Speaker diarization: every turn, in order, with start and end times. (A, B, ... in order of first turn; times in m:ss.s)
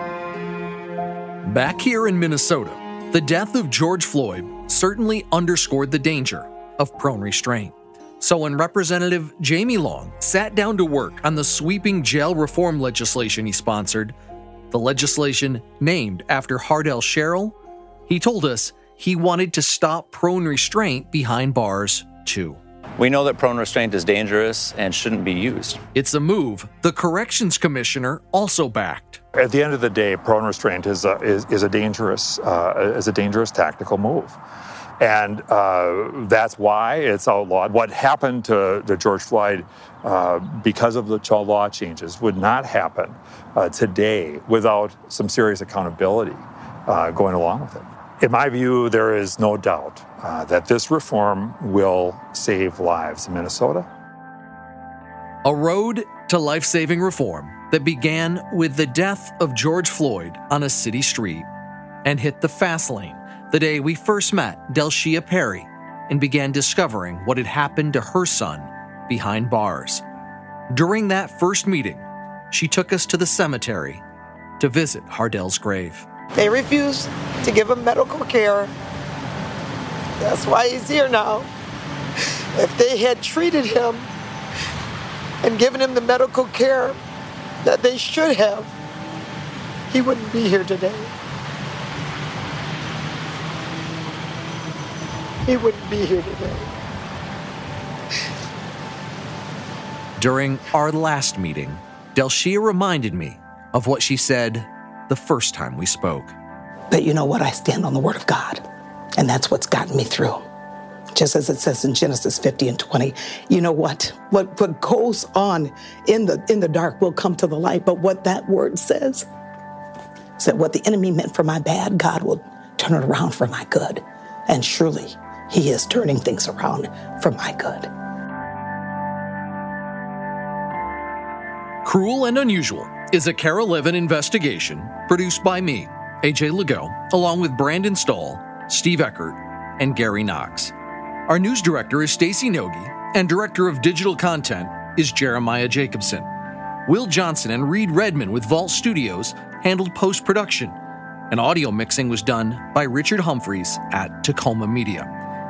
0:01.4-0:14.2 A
0:14.7-0:17.6 A
0:18.1-0:22.6 A
0:23.0-0:25.8 B
0:25.9-0:29.2 A
0:29.4-0:34.4 C
0:35.0-0:53.9 C
0:55.4-1:01.4 A
1:02.0-1:10.0 A
1:10.7-1:14.0 A
1:14.6-1:16.0 A
1:16.3-1:18.7 D
1:20.2-1:21.5 D
1:22.5-1:24.1 D
1:25.4-1:27.0 D
1:27.6-1:28.7 D
1:29.9-1:31.1 D
1:35.4-1:36.7 D
1:40.2-1:46.3 A
1:46.9-1:48.6 E
1:49.2-1:50.4 E
1:51.1-1:59.3 E
2:00.4-2:07.9 E
2:11.8-2:20.7 A
2:21.3-2:26.3 A
2:26.8-2:30.8 A
2:31.3-2:35.1 A